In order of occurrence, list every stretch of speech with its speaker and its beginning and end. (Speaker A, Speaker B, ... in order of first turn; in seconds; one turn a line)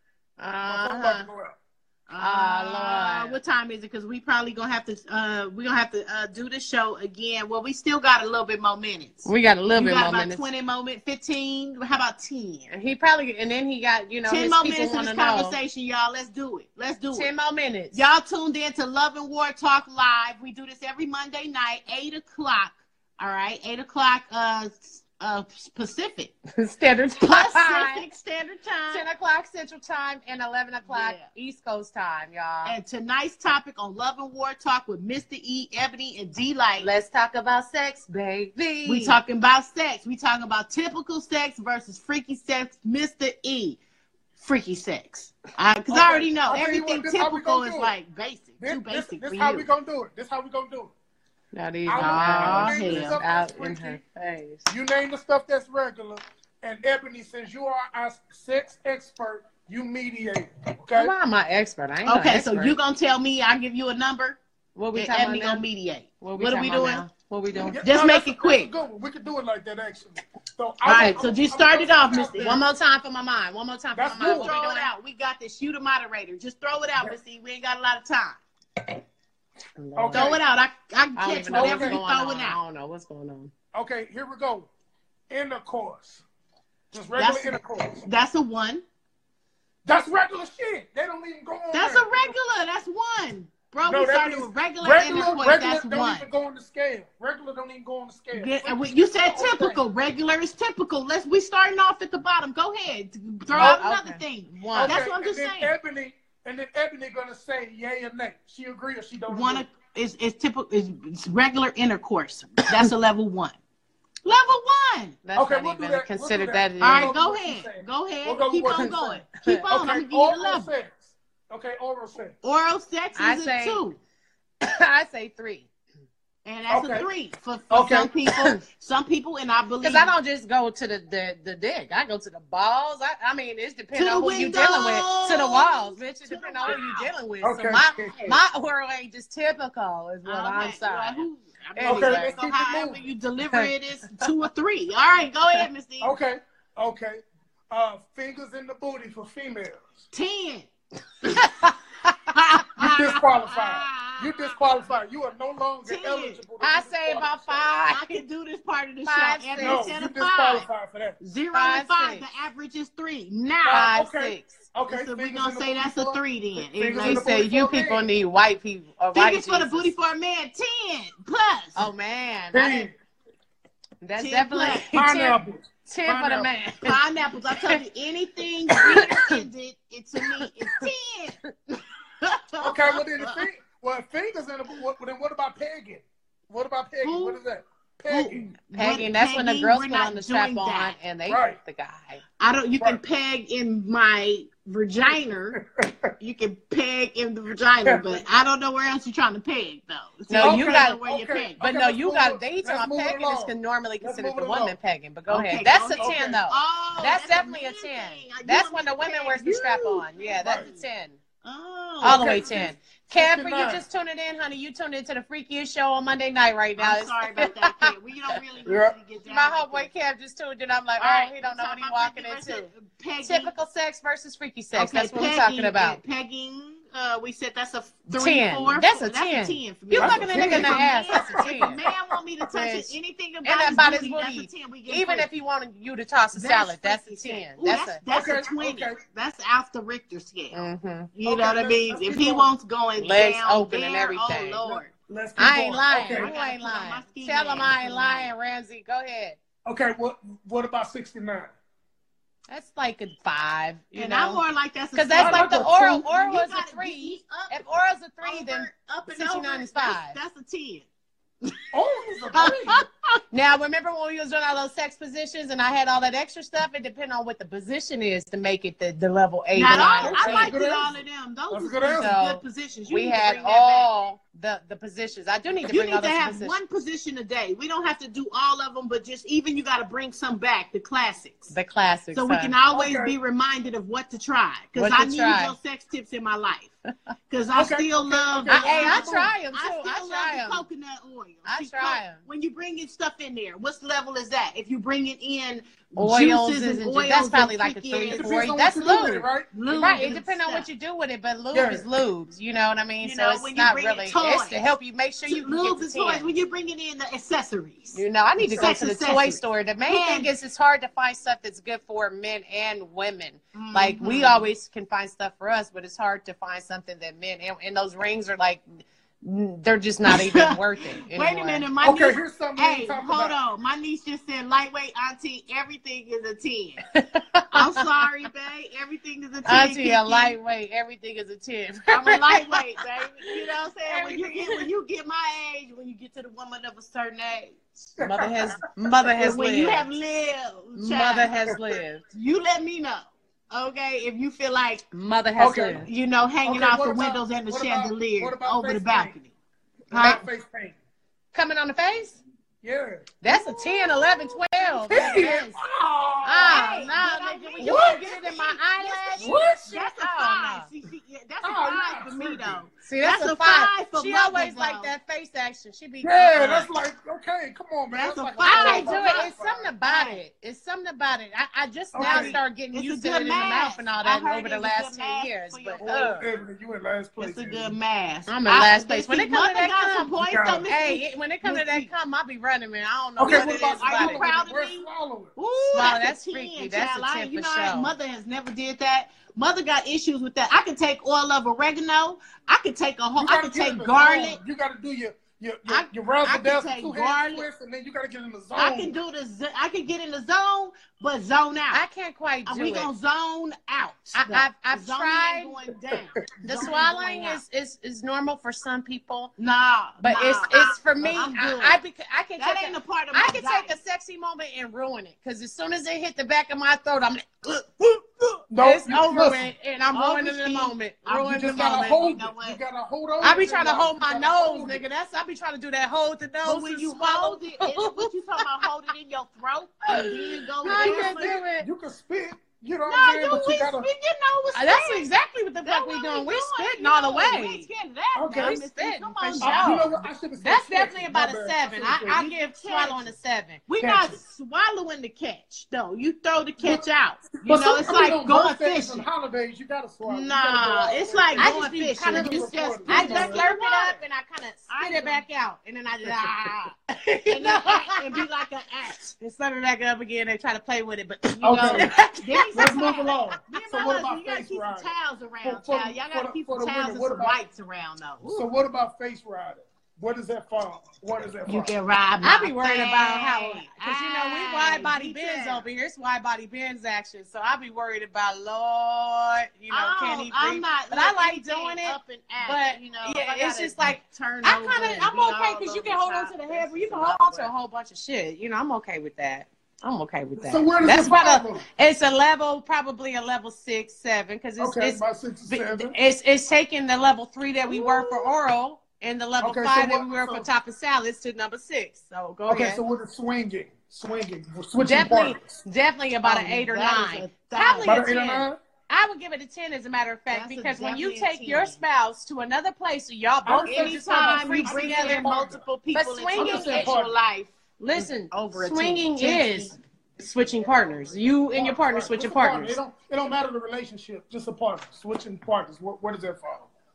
Speaker A: 0.4-1.3
Speaker B: 0.7-1.6
Speaker C: 2.1-12.7
Speaker A: 2.2-3.4
Speaker A: 9.2-10.4
Speaker A: 12.7-15.6
Speaker C: 14.3-17.3
Speaker A: 17.1-18.0
Speaker C: 17.9-26.3
Speaker A: 26.6-28.1
Speaker C: 27.2-29.1
Speaker A: 28.9-32.8
Speaker C: 30.9-31.3
Speaker C: 32.6-36.9
Speaker A: 36.8-39.2
Speaker C: 38.9-43.8
Speaker C: 44.4-49.7
Speaker B: 45.9-47.9
Speaker B: 48.6-50.9
Speaker A: 51.5-54.7
Speaker B: 51.9-54.0
Speaker C: 52.0-53.2
Speaker B: 54.7-61.1
Speaker A: 61.0-62.8
Speaker C: 62.0-64.4
Speaker A: 64.8-65.7
Speaker C: 64.9-67.0
Speaker A: 66.2-67.8
Speaker B: 67.6-72.6
Speaker C: 67.8-68.7
Speaker A: 70.8-71.2
Speaker C: 70.8-72.6
Speaker A: 72.4-74.9
Speaker B: 73.9-74.5
Speaker C: 74.2-78.4
Speaker A: 79.8-80.4
Speaker B: 80.0-80.4
Speaker C: 80.1-82.6
Speaker A: 81.2-83.5
Speaker B: 81.5-82.0
Speaker B: 83.7-84.7
Speaker B: 85.3-86.2
Speaker B: 86.9-88.0
Speaker C: 87.2-88.8
Speaker B: 89.9-92.4
Speaker C: 91.7-96.3
Speaker B: 93.8-99.8
Speaker C: 98.3-105.7
Speaker B: 103.5-103.8
Speaker A: 103.5-105.0
Speaker B: 104.7-109.7
Speaker C: 109.3-113.6
Speaker C: 114.2-115.2
Speaker A: 115.2-117.1
Speaker B: 115.4-119.1
Speaker C: 116.8-120.7
Speaker A: 118.8-119.7
Speaker B: 119.7-122.4
Speaker C: 122.4-124.0
Speaker A: 123.2-123.8
Speaker A: 124.6-125.7
Speaker C: 126.4-130.1
Speaker B: 126.7-127.1
Speaker B: 127.7-128.1
Speaker A: 128.3-128.6
Speaker A: 129.8-142.4
Speaker C: 133.9-137.1
Speaker B: 137.4-138.3
Speaker C: 140.2-146.1
Speaker B: 141.8-143.0
Speaker B: 146.0-150.0
Speaker C: 150.1-150.7
Speaker A: 151.2-152.4
Speaker C: 152.3-154.6
Speaker B: 152.8-157.7
Speaker C: 155.9-156.4
Speaker A: 156.6-158.2
Speaker C: 157.9-160.7
Speaker A: 159.0-159.9
Speaker B: 159.6-161.2
Speaker C: 161.2-163.9
Speaker A: 161.5-162.3
Speaker B: 163.6-168.1
Speaker A: 163.7-164.6
Speaker C: 164.9-167.3
Speaker A: 167.0-169.9
Speaker C: 169.1-171.9
Speaker A: 171.7-172.9
Speaker B: 172.5-172.9
Speaker A: 174.0-177.0
Speaker C: 174.2-174.9
Speaker B: 174.9-176.5
Speaker C: 176.8-181.4
Speaker A: 177.6-177.8
Speaker A: 178.8-179.4
Speaker C: 182.2-183.4
Speaker B: 182.6-188.5
Speaker C: 187.0-187.4
Speaker C: 188.1-190.9
Speaker A: 188.7-192.2
Speaker B: 191.3-191.6
Speaker C: 192.4-195.6
Speaker B: 195.6-196.1
Speaker C: 196.2-201.6
Speaker B: 197.8-198.2
Speaker A: 200.3-201.0
Speaker B: 200.4-204.8
Speaker A: 201.6-211.2
Speaker C: 205.3-210.8
Speaker B: 205.9-206.4
Speaker B: 210.4-210.7
Speaker C: 211.4-212.7
Speaker B: 212.0-213.8
Speaker A: 212.0-217.9
Speaker C: 216.8-219.9
Speaker B: 218.6-218.9
Speaker A: 219.3-222.7
Speaker C: 221.0-223.5
Speaker A: 223.2-226.0
Speaker C: 224.7-235.3
Speaker A: 228.1-231.8
Speaker B: 229.9-231.9
Speaker A: 232.5-238.0
Speaker C: 236.3-240.6
Speaker B: 238.1-239.0
Speaker A: 240.5-241.1
Speaker C: 241.1-244.9
Speaker B: 241.2-242.5
Speaker A: 243.0-244.6
Speaker B: 244.6-246.3
Speaker A: 245.4-249.4
Speaker C: 245.9-248.3
Speaker B: 249.7-251.5
Speaker A: 252.5-260.2
Speaker C: 253.9-257.6
Speaker B: 255.1-256.0
Speaker C: 258.2-260.9
Speaker B: 261.7-262.8
Speaker C: 262.3-263.2
Speaker A: 263.3-270.5
Speaker C: 269.5-273.9
Speaker B: 270.0-271.0
Speaker B: 271.5-272.2
Speaker A: 271.9-276.6
Speaker C: 275.6-281.5
Speaker A: 281.5-282.6
Speaker C: 282.1-286.7
Speaker B: 282.7-283.1
Speaker A: 284.7-285.6
Speaker C: 287.3-298.3
Speaker B: 287.5-289.3
Speaker A: 288.5-290.6
Speaker A: 291.4-292.2
Speaker A: 296.0-306.3
Speaker B: 298.1-299.5
Speaker C: 299.5-300.7
Speaker B: 301.5-301.9
Speaker C: 303.0-304.6
Speaker C: 305.3-310.3
Speaker A: 307.9-318.6
Speaker C: 313.6-314.5
Speaker A: 319.2-321.6
Speaker C: 320.1-326.8
Speaker B: 321.8-323.4
Speaker A: 326.9-327.8
Speaker C: 327.5-330.3
Speaker A: 329.4-332.6
Speaker C: 331.9-337.6
Speaker A: 333.9-334.6
Speaker B: 338.0-338.5
Speaker A: 338.0-339.9
Speaker C: 339.2-341.3
Speaker A: 340.7-342.0
Speaker C: 342.1-344.8
Speaker A: 344.9-345.9
Speaker B: 345.4-345.8
Speaker C: 345.7-349.3
Speaker B: 346.4-349.1
Speaker C: 349.9-350.2
Speaker B: 349.9-350.8
Speaker A: 349.9-350.2
Speaker A: 351.3-352.2
Speaker B: 352.6-353.4
Speaker A: 353.2-355.6
Speaker C: 353.3-353.6
Speaker C: 354.7-355.4
Speaker B: 354.9-356.9
Speaker A: 356.2-360.7
Speaker C: 356.4-364.9
Speaker B: 357.6-358.1
Speaker B: 359.2-359.8
Speaker B: 361.4-362.7
Speaker A: 362.8-366.7
Speaker B: 366.0-369.7
Speaker C: 367.9-369.3
Speaker A: 368.4-376.3
Speaker C: 369.8-370.2
Speaker B: 371.9-372.4
Speaker C: 372.0-376.2
Speaker B: 375.8-377.7
Speaker C: 377.2-381.9
Speaker A: 378.3-384.2
Speaker B: 380.2-380.7
Speaker B: 383.2-385.3
Speaker C: 383.2-394.4
Speaker A: 385.7-387.9
Speaker B: 393.2-398.9
Speaker C: 395.7-397.4
Speaker C: 398.6-401.8
Speaker A: 401.7-402.9
Speaker C: 402.4-407.4
Speaker A: 404.1-405.6
Speaker A: 406.4-409.3
Speaker C: 409.4-411.8
Speaker A: 410.0-422.0
Speaker C: 412.4-413.7
Speaker B: 418.5-419.5
Speaker C: 419.9-422.6
Speaker B: 421.1-424.8
Speaker A: 423.2-428.6
Speaker C: 426.4-431.4
Speaker A: 429.9-431.7
Speaker B: 430.6-433.9
Speaker C: 432.9-435.1
Speaker A: 434.5-437.7
Speaker C: 435.6-439.9
Speaker B: 438.1-438.6
Speaker A: 438.3-443.6
Speaker B: 439.4-442.2
Speaker C: 442.1-443.1
Speaker C: 443.7-449.1
Speaker B: 443.8-444.2
Speaker B: 446.6-446.9
Speaker B: 447.4-453.4
Speaker C: 450.1-454.0
Speaker A: 451.4-458.2
Speaker C: 454.7-455.2
Speaker C: 457.3-459.1
Speaker A: 459.2-462.8
Speaker B: 461.4-461.9
Speaker C: 461.8-468.4
Speaker B: 462.5-467.4
Speaker B: 468.3-471.7
Speaker C: 471.5-475.6
Speaker A: 472.2-502.8
Speaker C: 479.7-487.5
Speaker B: 490.4-491.6
Speaker B: 494.6-495.9
Speaker B: 497.7-498.3
Speaker B: 499.4-500.5
Speaker B: 502.5-505.6
Speaker A: 504.8-515.3
Speaker C: 506.2-508.1
Speaker B: 507.8-508.6
Speaker C: 510.3-511.8
Speaker B: 513.4-515.6
Speaker C: 513.6-517.5
Speaker A: 515.9-516.9
Speaker B: 516.3-517.1
Speaker A: 517.8-522.8
Speaker C: 518.1-519.8
Speaker B: 521.5-526.7